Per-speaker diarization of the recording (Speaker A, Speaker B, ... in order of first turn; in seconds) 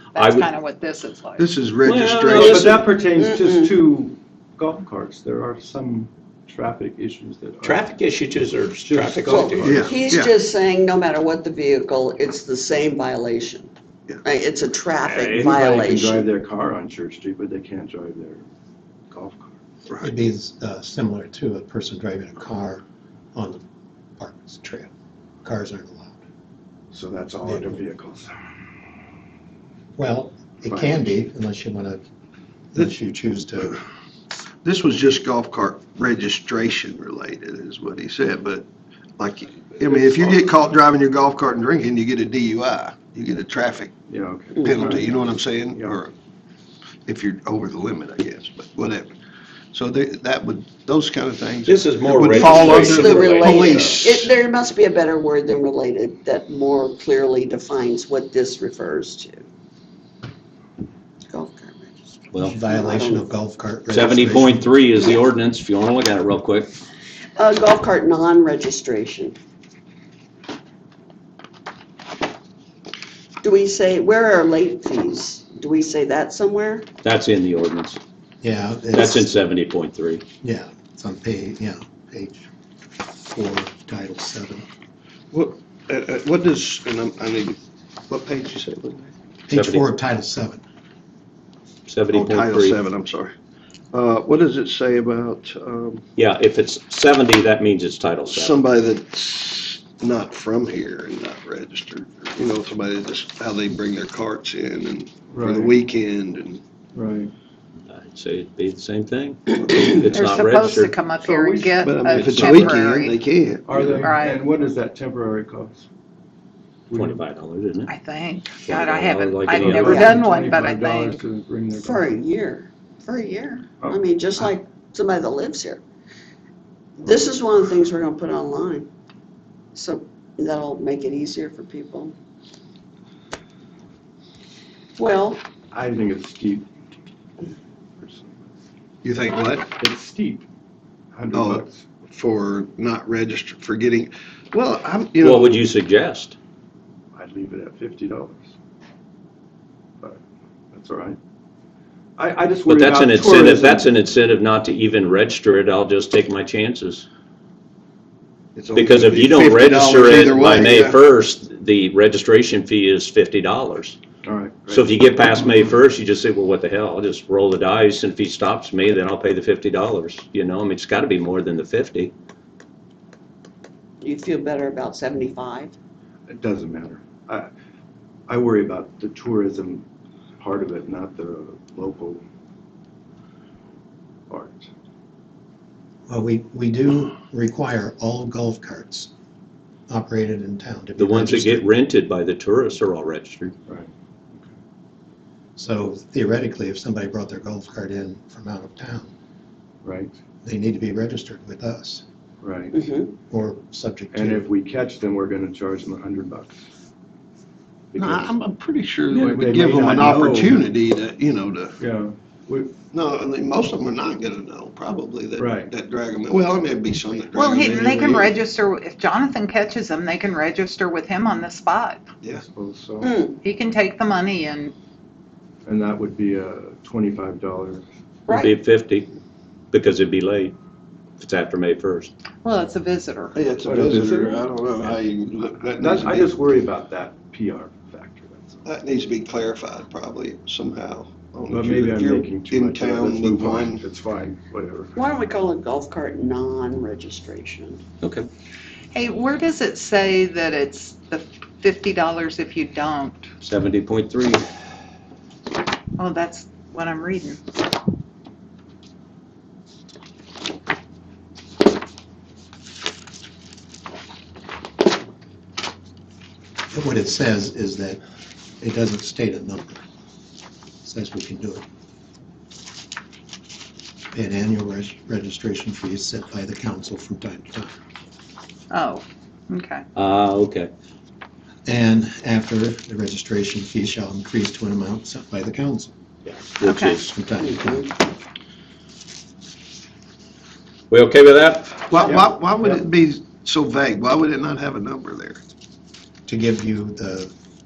Speaker A: 0.1-1.5, 110.1-113.1, 113.8-114.4, 117.9-121.2, 217.3-222.0, 223.4-224.7, 232.4-233.4, 248.9-253.3, 256.0-257.4, 278.7-279.8, 286.6-287.0
Speaker B: 0.2-0.5, 1.8-2.8, 7.6-9.8, 15.0-15.5, 51.6-54.0, 63.9-66.7, 77.0-78.0, 78.9-80.2, 89.5-89.9, 91.9-92.8, 96.2-98.6, 107.9-110.9, 116.9-117.9, 118.6-119.9, 145.2-146.3, 152.7-157.0, 158.7-164.0, 164.7-172.1, 191.0-193.5, 228.3-229.1, 229.7-230.6, 231.2-232.1, 248.0-248.3, 253.4-254.4, 279.9-280.7, 286.6-287.1, 290.9-291.9
Speaker C: 1.4-2.9, 9.6-10.3, 34.6-38.6, 39.2-43.9, 44.6-46.1, 47.0-49.1, 49.7-54.3, 85.3-87.6, 88.1-89.1, 92.1-93.3, 93.9-96.0, 98.2-106.6, 111.8-114.1, 139.0-139.8, 141.3-145.7, 158.5-161.0, 207.9-211.7, 212.9-218.4, 233.3-236.5, 238.6-243.8, 291.9-295.4
Speaker D: 2.3-7.8, 8.8-9.9, 15.3-18.4, 19.1-19.5, 26.9-28.6, 30.7-31.1, 39.8-40.5, 44.1-46.0, 105.3-105.7, 106.9-107.3, 111.2-112.6, 113.6-115.8, 116.9-117.2, 119.6-122.0, 123.8-124.0, 135.7-136.7, 137.4-138.5, 139.8-140.4, 141.1-141.8, 147.1-148.4, 150.7-151.2, 152.2-153.9, 164.2-165.2, 176.3-177.5, 178.3-179.8, 180.4-182.2, 184.3-184.7, 193.7-194.5, 199.8-200.1, 202.4-202.8, 204.1-206.6, 207.9-208.3, 209.1-210.7, 211.8-212.8, 215.4-215.7, 222.4-223.1, 225.6-227.8, 233.6-238.6, 241.5-245.0, 292.0-292.8
Speaker E: 3.1-3.7, 9.2-13.7, 14.2-16.2, 44.6-44.9, 52.2-59.5, 61.3-63.3, 67.3-69.3, 73.4-76.9, 119.8-120.1, 121.7-125.8, 127.0-128.9, 129.7-132.1, 135.0-135.4, 174.0-175.7, 202.7-203.1, 223.0-223.4, 228.3-228.5, 244.9-247.8, 287.4-287.9
Speaker F: 20.0-22.8, 23.3-23.6, 24.2-24.9, 25.4-26.2, 27.4-27.8, 29.9-32.0, 32.7-33.8, 62.4-64.7, 78.4-79.3, 80.4-82.5, 83.2-84.6, 89.5-90.6, 186.1-189.1, 189.9-191.7, 195.6-199.1, 200.4-202.0, 203.3-204.4, 266.7-268.0, 268.6-269.8, 270.8-271.6, 274.1-277.8, 281.6-285.9, 286.9-287.9, 296.3-297.3